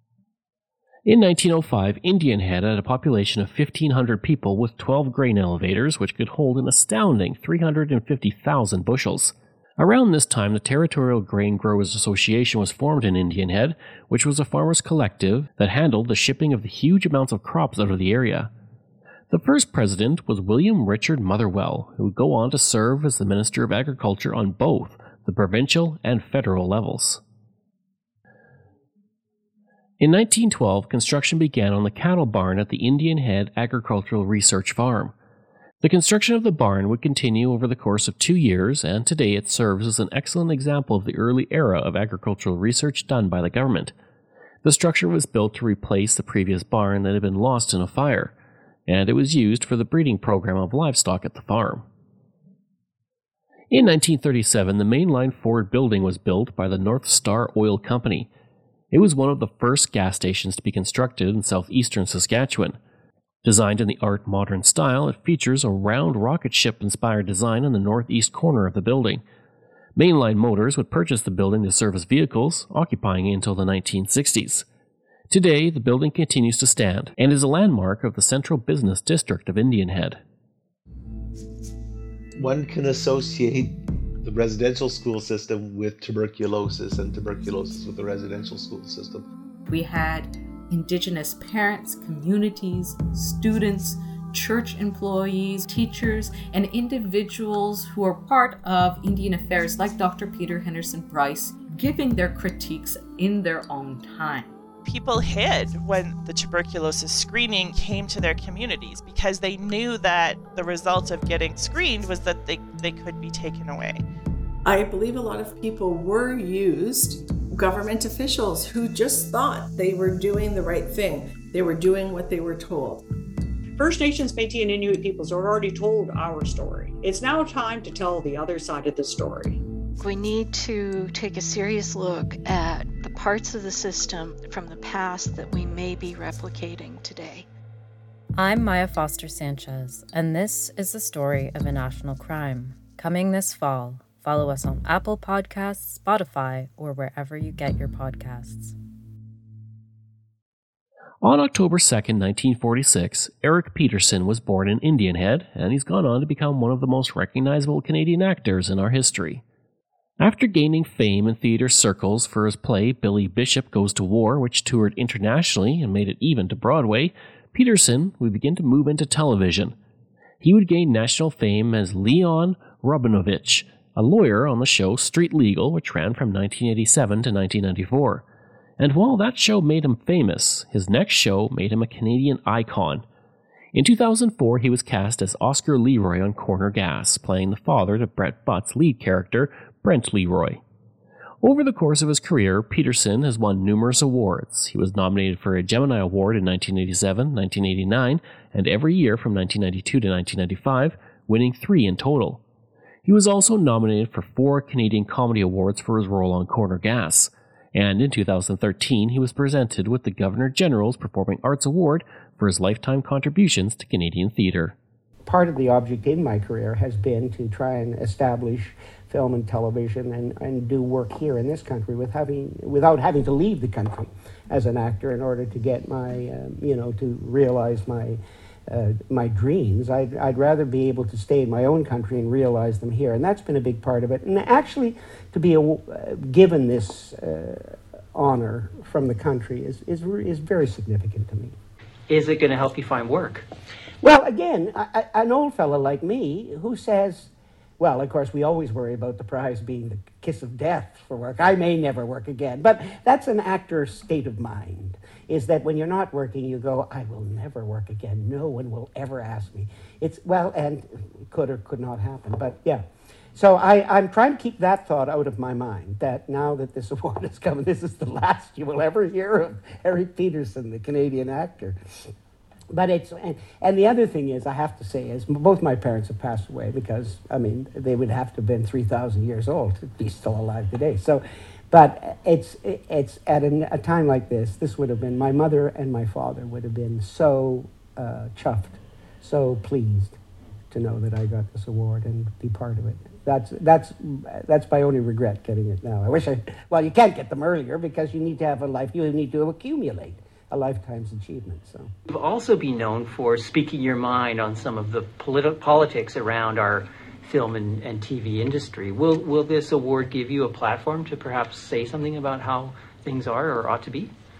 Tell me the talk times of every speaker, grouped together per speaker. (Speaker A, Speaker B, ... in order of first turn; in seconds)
Speaker A: 1.1-18.5, 19.3-27.2, 30.0-35.1, 35.8-43.9, 44.6-48.3, 48.9-51.9, 53.7-58.3, 58.9-62.8, 63.4-69.2, 70.0-74.7, 75.3-80.2, 151.2-159.4, 160.2-169.8, 170.4-178.2, 178.8-183.0, 183.7-190.6, 191.4-202.4, 203.1-214.8
Speaker B: 82.4-89.2
Speaker C: 89.7-104.6
Speaker D: 104.9-114.0
Speaker E: 114.7-123.0
Speaker F: 123.8-129.6
Speaker G: 130.0-137.5
Speaker H: 138.4-148.8
Speaker I: 215.3-241.6, 244.0-262.8, 263.3-272.1, 272.7-290.2, 290.7-301.9
Speaker J: 242.1-243.4, 302.1-314.1